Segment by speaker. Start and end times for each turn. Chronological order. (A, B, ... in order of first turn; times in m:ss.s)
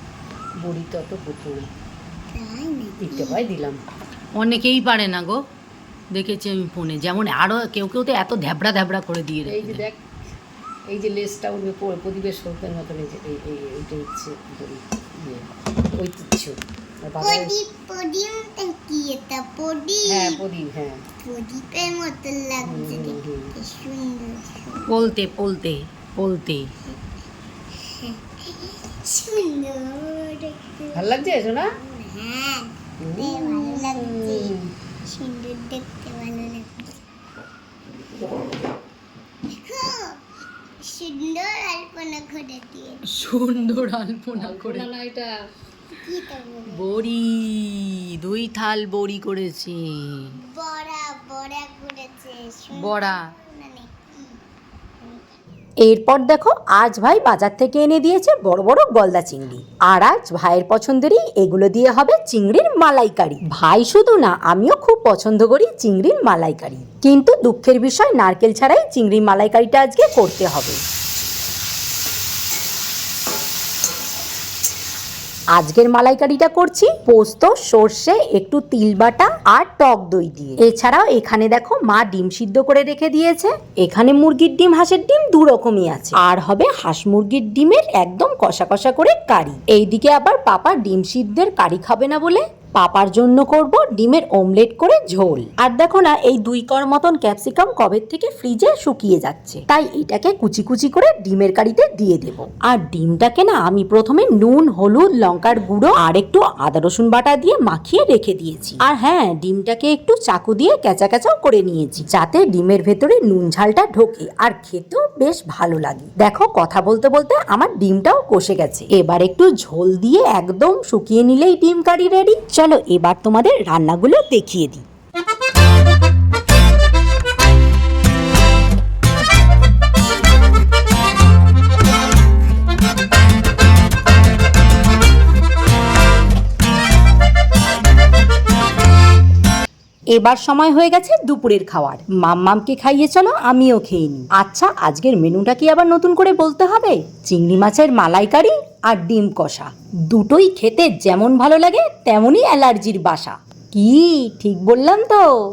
0:00.6-0:01.7 A
0:02.3-0:03.4 B
0:03.0-0:03.8 A
0:04.4-0:05.4 C
0:06.1-0:09.8 C
0:09.5-0:10.0 A
0:10.9-0:17.5 A
0:17.2-0:20.4 B
0:20.1-0:21.0 A
0:21.2-0:25.0 B
0:22.6-0:23.6 A
0:24.9-0:26.7 C
0:27.8-0:34.6 B
0:31.0-0:31.8 A
0:33.0-0:34.7 A
0:35.1-0:36.9 B
0:39.5-0:40.2 B
0:40.8-0:43.0 B
0:43.1-0:44.9 C
0:44.4-0:45.4 A
0:46.0-0:47.0 B
0:46.7-0:50.4 C
0:50.3-0:54.4 B
0:52.7-0:53.2 C
0:55.8-1:10.8 D
1:15.6-2:04.8 D
2:20.1-2:35.3 D